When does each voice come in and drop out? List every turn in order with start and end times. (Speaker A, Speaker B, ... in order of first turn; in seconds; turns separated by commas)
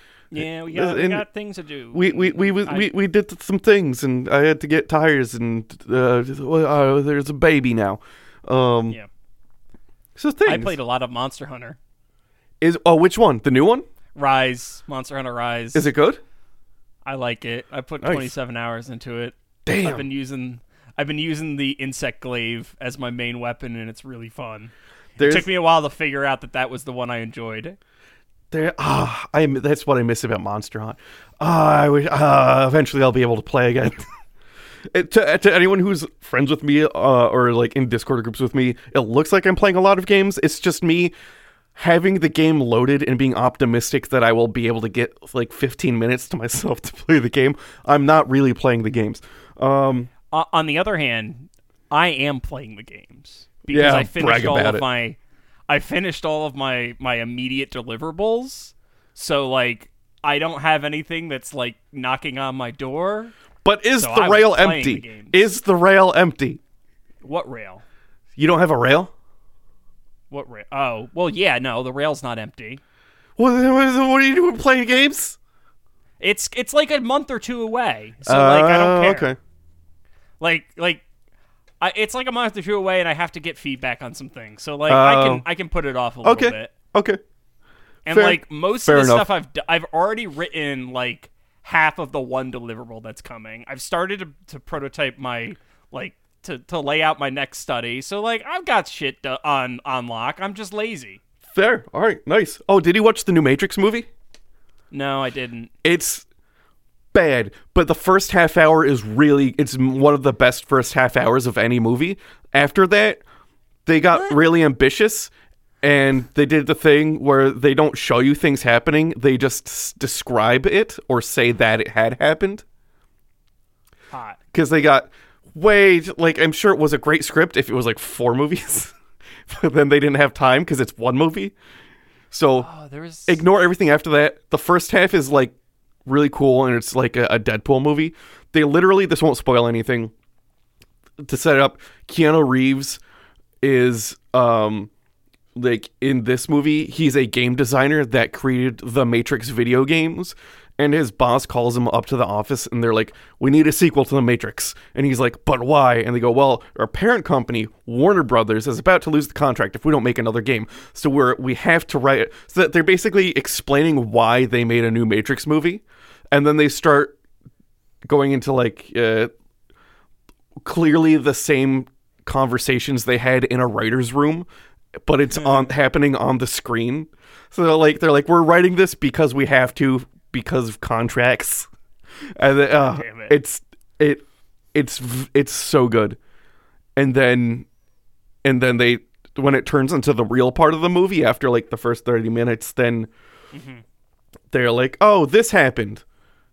Speaker A: 0.3-2.9, Speaker B: 0.4-1.2, Speaker B: 1.9-9.0, Speaker B: 10.2-10.8, Speaker A: 10.4-11.8, Speaker B: 12.6-13.8, Speaker A: 14.2-15.9, Speaker B: 15.7-16.2, Speaker A: 17.0-27.8, Speaker B: 18.0-18.3, Speaker B: 19.6-20.0, Speaker B: 25.2-25.5, Speaker B: 28.5-34.0, Speaker B: 34.9-41.1, Speaker B: 41.7-50.1, Speaker A: 50.3-55.2, Speaker B: 53.7-54.8, Speaker A: 55.7-63.3, Speaker B: 63.6-66.6, Speaker A: 64.0-65.5, Speaker A: 67.2-67.8, Speaker B: 68.4-69.1, Speaker A: 70.3-72.8, Speaker B: 73.4-75.3, Speaker A: 76.2-79.3, Speaker B: 78.2-79.4, Speaker A: 80.4-81.0, Speaker A: 81.8-86.7, Speaker B: 84.9-85.4, Speaker B: 86.2-87.2, Speaker A: 88.0-101.2, Speaker B: 88.1-89.3, Speaker B: 101.5-104.1, Speaker A: 104.9-105.7, Speaker B: 105.8-106.2, Speaker B: 107.1-113.2, Speaker B: 113.8-115.3, Speaker A: 114.1-114.4, Speaker B: 115.8-122.6, Speaker A: 124.1-124.4, Speaker B: 124.5-128.9, Speaker B: 129.5-131.5, Speaker B: 132.3-132.7, Speaker A: 132.6-133.4, Speaker B: 133.3-135.5, Speaker B: 136.1-140.1, Speaker B: 141.2-143.0, Speaker B: 143.6-144.9, Speaker B: 145.5-167.1, Speaker B: 168.1-169.3, Speaker B: 170.6-174.5, Speaker B: 175.0-181.7, Speaker A: 175.4-175.7, Speaker B: 182.4-184.2, Speaker A: 182.7-183.3, Speaker B: 184.7-186.2, Speaker B: 186.9-187.7, Speaker B: 188.4-193.1, Speaker A: 193.5-193.8, Speaker B: 194.5-196.0